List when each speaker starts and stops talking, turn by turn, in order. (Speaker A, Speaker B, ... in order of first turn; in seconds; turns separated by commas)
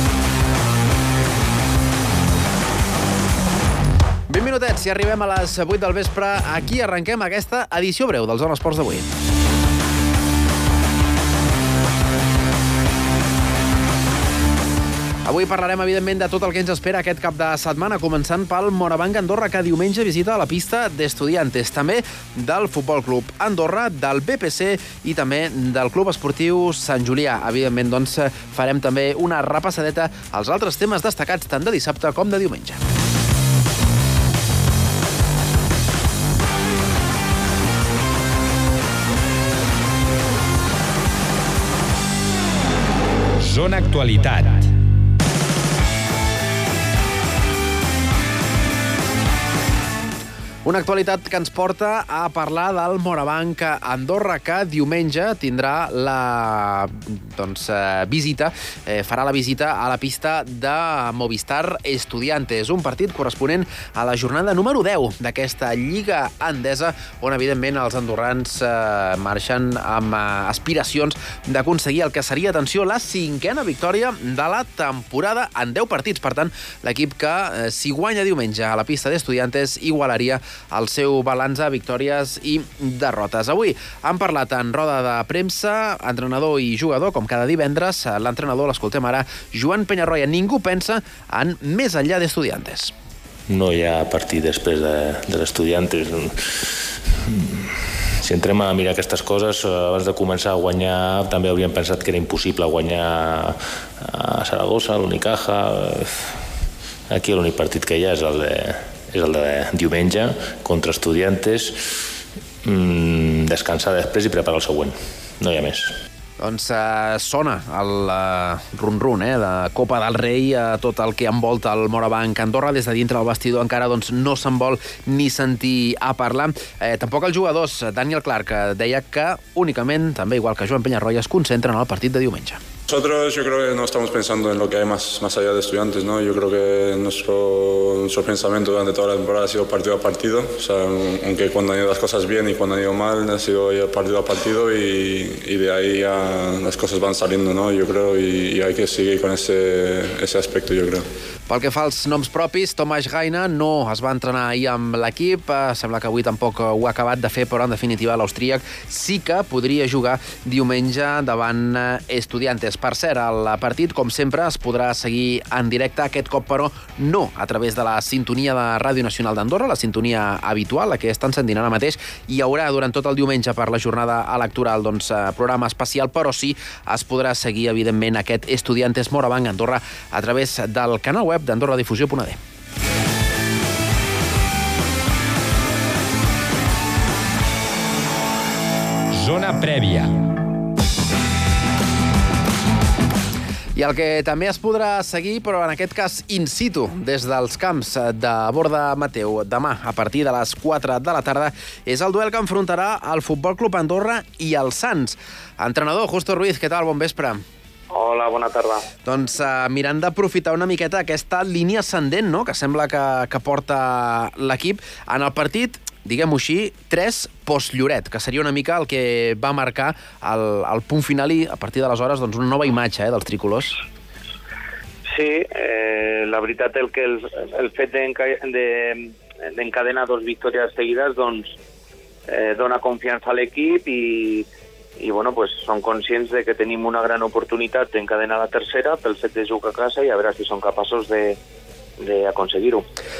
Speaker A: 4.3-9.1, Speaker A: 15.2-32.8, Speaker B: 43.4-44.7, Speaker A: 50.6-92.9, Speaker C: 93.5-96.7, Speaker C: 97.3-106.3, Speaker C: 107.1-111.8, Speaker C: 112.6-115.9, Speaker A: 116.4-132.6, Speaker D: 132.9-151.0, Speaker A: 151.5-182.4, Speaker B: 189.1-190.1, Speaker A: 193.7-207.4, Speaker E: 207.9-208.8, Speaker A: 209.0-223.8, Speaker E: 225.1-231.5, Speaker E: 232.3-241.4, Speaker E: 242.0-242.8